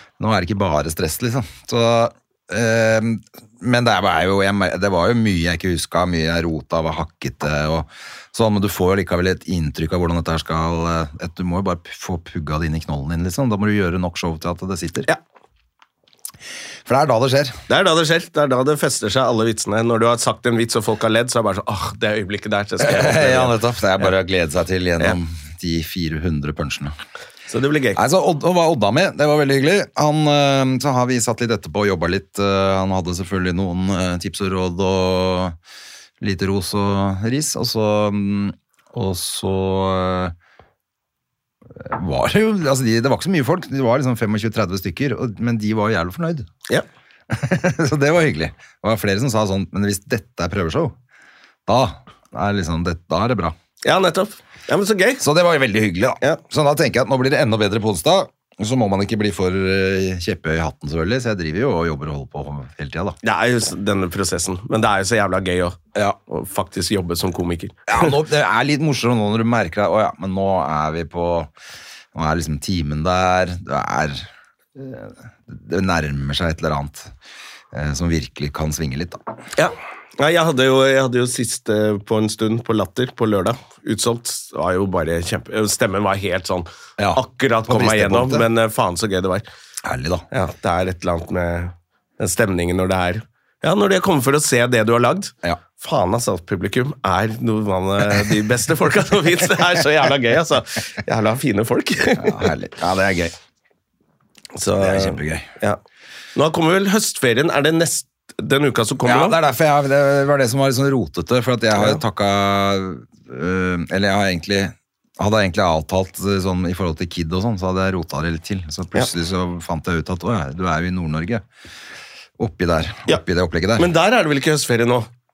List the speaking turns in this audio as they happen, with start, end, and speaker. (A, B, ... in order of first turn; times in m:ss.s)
0:00.2-0:15.1 A
0:16.9-0:17.6 A
0:17.7-0:23.6 B
0:22.8-0:27.0 A
0:27.5-0:28.0 B
0:28.0-0:35.6 A
0:36.2-0:40.4 A
0:41.8-0:46.5 A
0:47.3-0:50.9 A
0:51.7-0:53.6 A
0:53.8-0:55.2 B
0:55.2-1:03.2 A
1:03.2-1:08.2 B
1:07.9-1:11.5 A
1:12.1-1:17.1 A
1:17.7-1:19.2 A
1:19.6-1:29.4 B
1:27.0-1:28.5 A
1:29.8-1:30.2 A
1:30.3-1:42.5 B
1:42.2-1:43.4 A
1:44.6-1:45.8 B
1:44.8-1:45.5 A
1:46.4-1:49.4 B
1:49.0-2:01.4 A
2:02.4-2:03.9 A
2:03.8-2:05.1 B